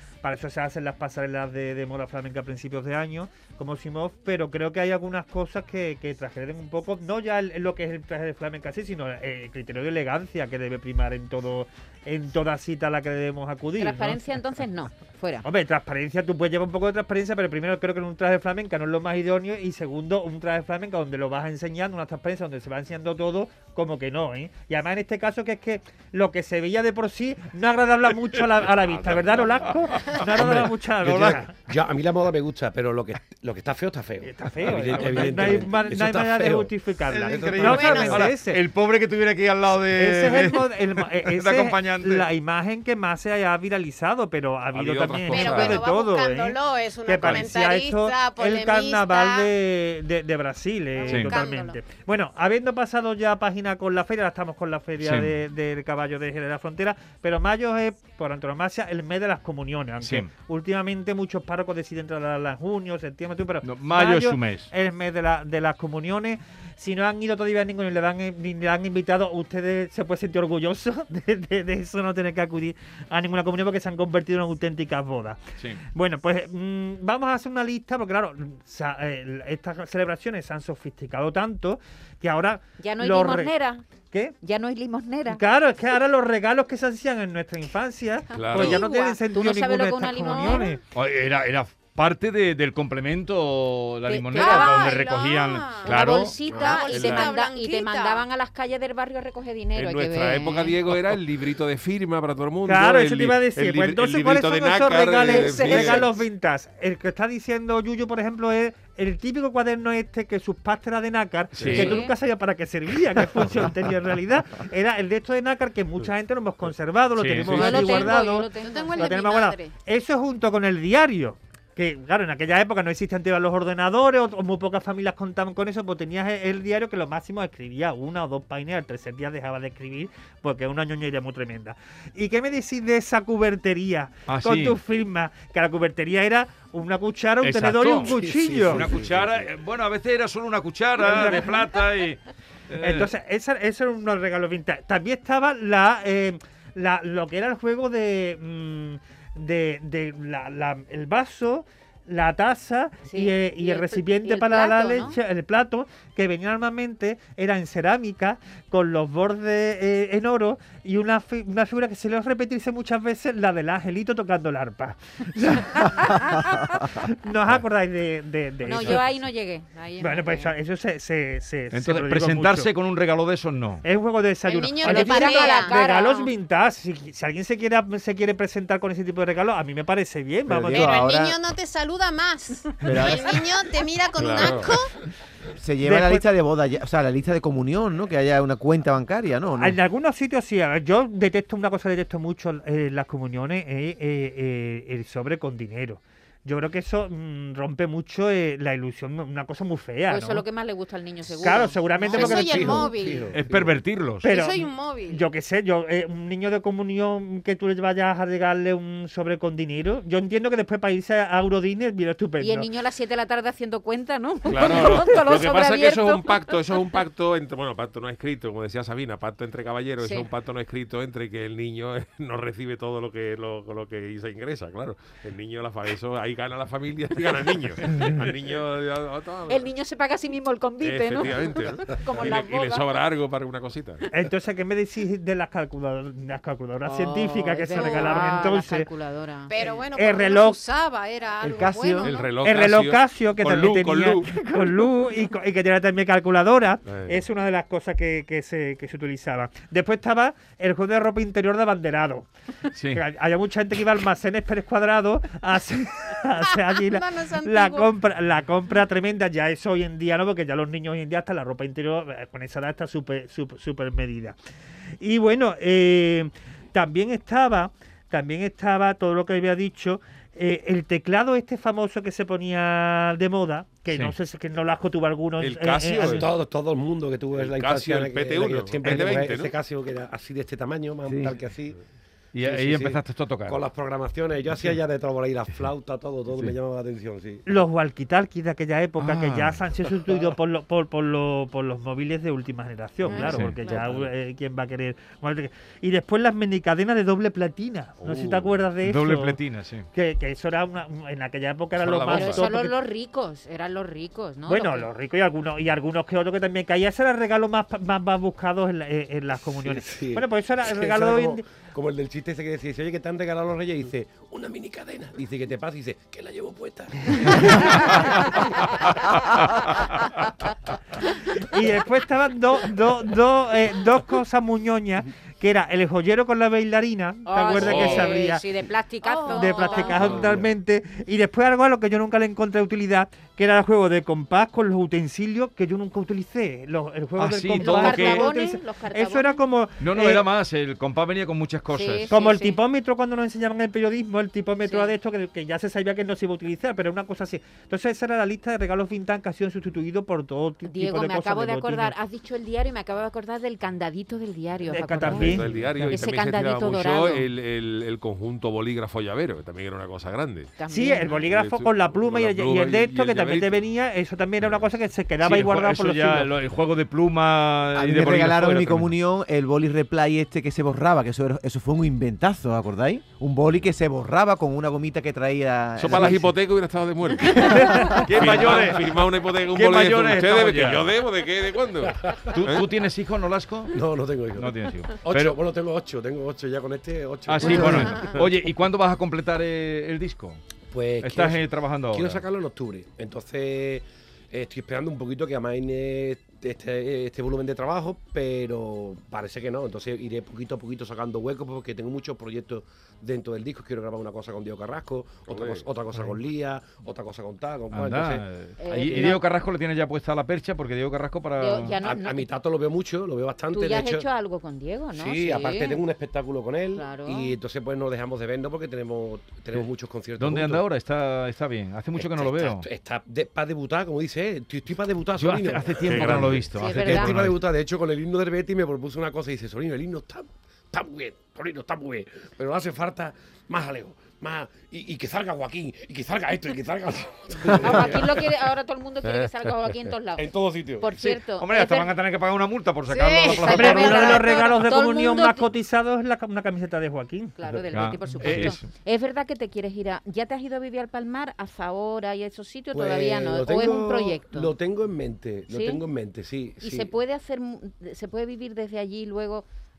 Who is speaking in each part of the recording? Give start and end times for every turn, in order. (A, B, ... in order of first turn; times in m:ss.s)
0:00.2-0:14.2 A
0:13.8-0:15.4 B
0:15.4-0:31.7 A
0:30.2-0:38.3 C
0:34.2-0:38.6 A
0:37.1-0:42.3 D
0:37.6-0:38.2 E
0:39.9-1:23.5 A
0:44.7-0:45.8 F
0:45.0-0:45.8 D
0:45.3-0:49.5 E
0:47.2-0:47.5 D
0:50.9-0:51.8 E
0:51.1-0:51.3 D
0:55.0-0:55.3 D
1:00.0-1:00.3 D
1:03.6-1:04.7 D
1:22.8-1:23.8 B
1:24.1-1:24.4 A
1:24.4-1:25.4 B
1:25.2-1:30.8 A
1:28.3-1:28.9 F
1:28.5-1:30.8 B
1:30.9-1:36.4 D
1:34.0-1:35.0 B
1:34.3-1:38.2 E
1:35.8-1:40.8 B
1:36.5-1:36.9 C
1:36.8-1:37.3 F
1:39.7-1:46.2 F
1:42.6-2:18.9 A
1:45.4-1:45.8 E
1:51.6-1:52.0 F
1:51.6-1:52.0 D
1:51.7-1:52.1 B
1:57.2-1:57.5 D
1:57.4-1:59.2 B
1:58.5-1:59.7 E
2:14.3-2:14.8 D
2:17.4-2:23.1 D
2:18.0-2:19.5 C
2:21.0-2:21.8 A
2:22.8-2:49.2 A
2:33.0-2:35.2 B
2:48.6-2:50.5 B
2:50.0-2:52.7 A
2:51.7-2:53.8 D
2:53.8-3:01.0 A
2:54.4-2:56.2 E
2:54.8-2:56.3 B
3:00.4-3:01.4 G
3:00.7-3:04.9 E
3:02.8-3:03.4 G
3:04.2-3:04.8 F
3:05.5-3:09.8 G
3:05.8-3:06.2 A
3:09.6-3:20.5 A
3:20.1-3:22.5 B
3:21.3-3:22.9 A
3:22.1-3:23.7 C
3:22.1-3:23.4 E
3:23.3-3:24.3 D
3:24.2-3:32.7 A
3:24.2-3:25.3 E
3:32.4-3:36.6 B
3:34.4-3:49.7 F
3:40.0-3:40.3 B
3:49.5-3:53.0 B
3:50.8-3:54.1 F
3:54.1-3:58.9 A
3:56.8-3:59.5 B
3:57.7-3:58.3 E
3:59.5-4:02.3 E
3:59.6-4:00.6 A
4:01.4-4:02.2 G
4:02.0-4:04.7 F
4:02.4-4:12.3 A
4:06.9-4:07.2 F
4:12.7-4:13.0 D
4:12.9-4:24.4 A
4:16.5-4:17.9 E
4:25.0-4:36.3 A
4:33.9-4:34.2 D
4:35.4-4:36.3 F
4:36.0-4:41.8 C
4:37.3-4:39.6 F
4:41.0-4:41.4 G
4:42.3-4:43.6 D
4:42.4-4:47.4 C
4:47.4-4:59.4 A
4:49.0-4:49.7 D
4:53.0-4:53.9 E
4:53.1-4:53.6 D
4:58.0-4:58.6 F
4:58.8-4:59.9 D
4:59.9-5:02.8 A
5:01.8-5:02.5 D
5:02.1-5:04.9 B
5:04.5-5:11.5 A
5:09.3-5:18.1 C
5:21.4-5:28.5 A
5:27.2-5:30.2 B
5:27.6-5:28.2 D
5:29.0-5:30.0 E
5:29.3-5:40.3 A
5:29.9-5:30.5 C
5:37.2-5:38.3 D
5:37.6-5:39.4 B
5:39.8-5:42.1 D
5:41.7-5:42.6 B
5:42.1-5:51.9 A
5:44.6-5:44.9 B
5:50.6-5:57.3 B
5:54.6-5:55.5 A
5:55.0-6:00.5 F
5:55.3-5:55.9 D
6:00.6-6:01.2 B
6:00.7-6:06.3 A
6:01.0-6:03.6 F
6:05.2-6:09.0 D
6:07.7-6:16.3 G
6:15.8-6:22.6 F
6:17.5-6:18.0 A
6:17.7-6:19.0 D
6:19.5-6:20.9 D
6:22.1-6:22.3 C
6:22.3-6:23.8 D
6:23.7-6:28.2 C
6:24.3-6:25.4 D
6:27.3-6:30.4 D
6:27.4-6:27.9 G
6:30.7-6:48.2 C
6:31.0-6:32.2 D
6:45.3-6:45.7 F
6:47.7-6:51.7 D
6:48.6-6:49.2 B
6:51.4-6:52.3 B
6:51.8-6:54.1 C
6:53.5-6:55.8 B
6:54.9-7:00.6 C
6:56.7-6:57.4 B
7:00.2-7:02.6 D
7:01.9-7:18.3 C
7:05.2-7:07.4 D
7:05.8-7:07.2 B
7:17.5-7:20.3 B
7:19.0-7:19.8 F
7:20.2-7:20.9 C
7:20.8-7:21.9 B
7:21.0-7:24.4 D
7:22.9-7:24.2 E
7:23.2-7:25.5 B
7:23.5-7:27.4 A
7:27.4-7:34.5 B
7:27.7-7:28.7 D
7:32.7-7:36.9 C
7:35.5-7:35.8 B
7:36.6-7:39.4 B